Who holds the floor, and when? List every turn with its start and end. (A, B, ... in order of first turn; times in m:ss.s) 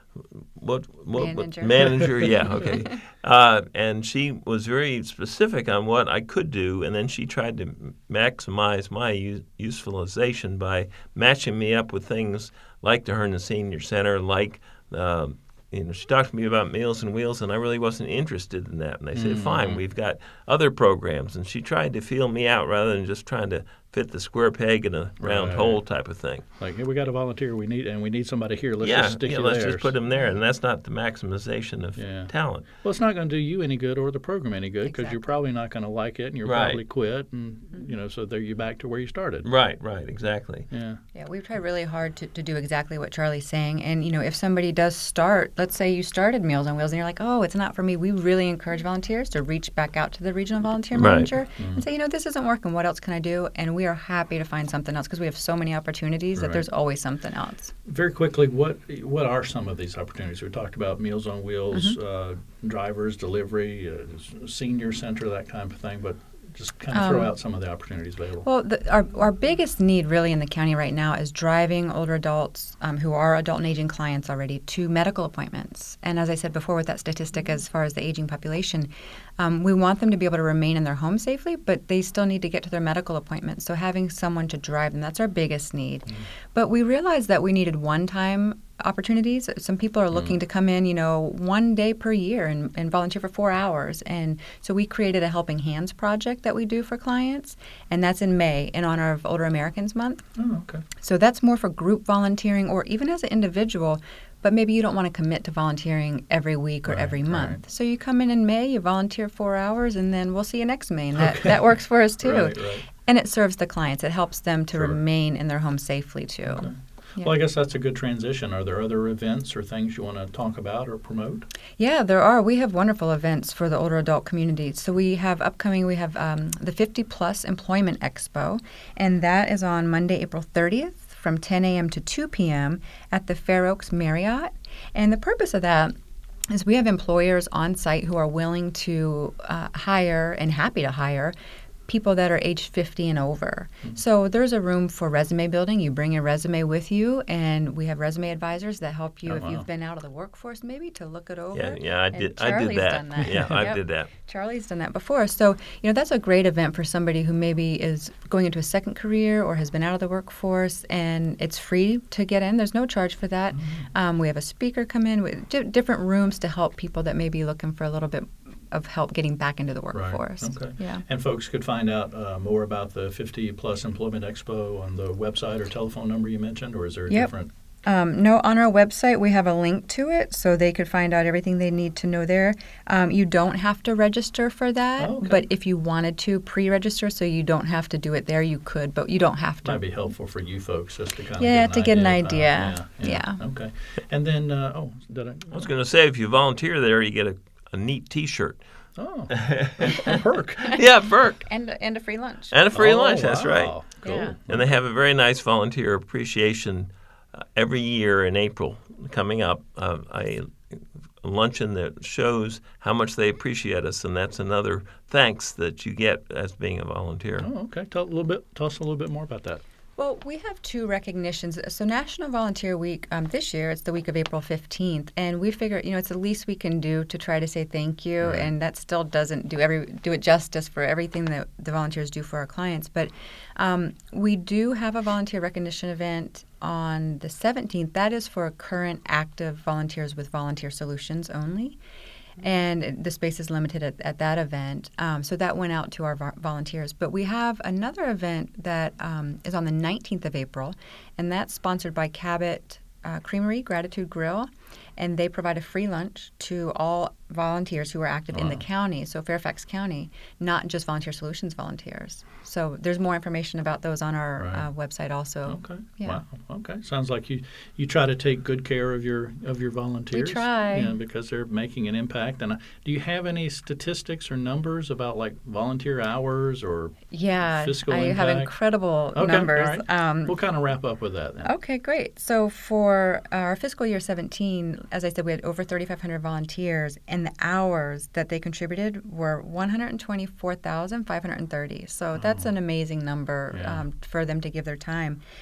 0:00.3-0:26.4 A
0:01.2-0:02.9 B
0:19.1-0:19.8 C
0:25.2-0:25.8 C
0:26.6-0:29.9 C
0:28.8-0:32.7 A
0:32.0-0:39.5 C
0:34.8-0:35.2 B
0:36.4-0:36.8 A
0:39.4-0:40.7 A
0:40.7-0:41.0 C
0:41.1-0:57.7 B
0:50.9-0:51.3 A
0:51.6-0:51.8 C
0:56.4-0:56.7 C
0:57.9-1:08.4 C
1:06.9-1:07.4 B
1:08.4-1:40.2 B
1:30.1-1:30.4 C
1:40.4-1:40.8 C
1:41.0-1:57.3 B
1:46.8-1:47.6 C
1:51.2-1:52.8 C
1:56.5-2:01.5 C
2:01.8-2:15.9 B
2:16.5-2:21.4 B
2:21.9-2:51.0 B
2:29.3-2:29.7 C
2:31.5-2:34.1 A
2:43.5-2:43.9 C
2:49.9-2:57.5 C
2:57.8-3:09.8 B
3:05.0-3:05.5 C
3:09.6-3:15.7 C
3:11.4-3:13.4 B
3:15.5-3:18.6 A
3:19.0-3:20.8 C
3:19.3-3:20.2 A
3:20.7-3:21.5 A
3:21.5-3:22.6 B
3:22.5-3:37.5 A
3:22.7-3:24.8 C
3:24.0-3:24.4 B
3:37.4-3:39.6 C
3:40.0-4:01.8 B
3:48.2-3:48.5 C
4:02.4-4:26.2 B
4:18.3-4:18.6 C
4:24.4-4:24.7 C
4:25.5-4:38.5 C
4:30.1-4:31.0 B
4:37.1-4:40.4 B
4:39.2-4:41.5 C
4:41.4-4:55.2 B
4:52.2-4:52.5 C
4:53.5-4:53.8 C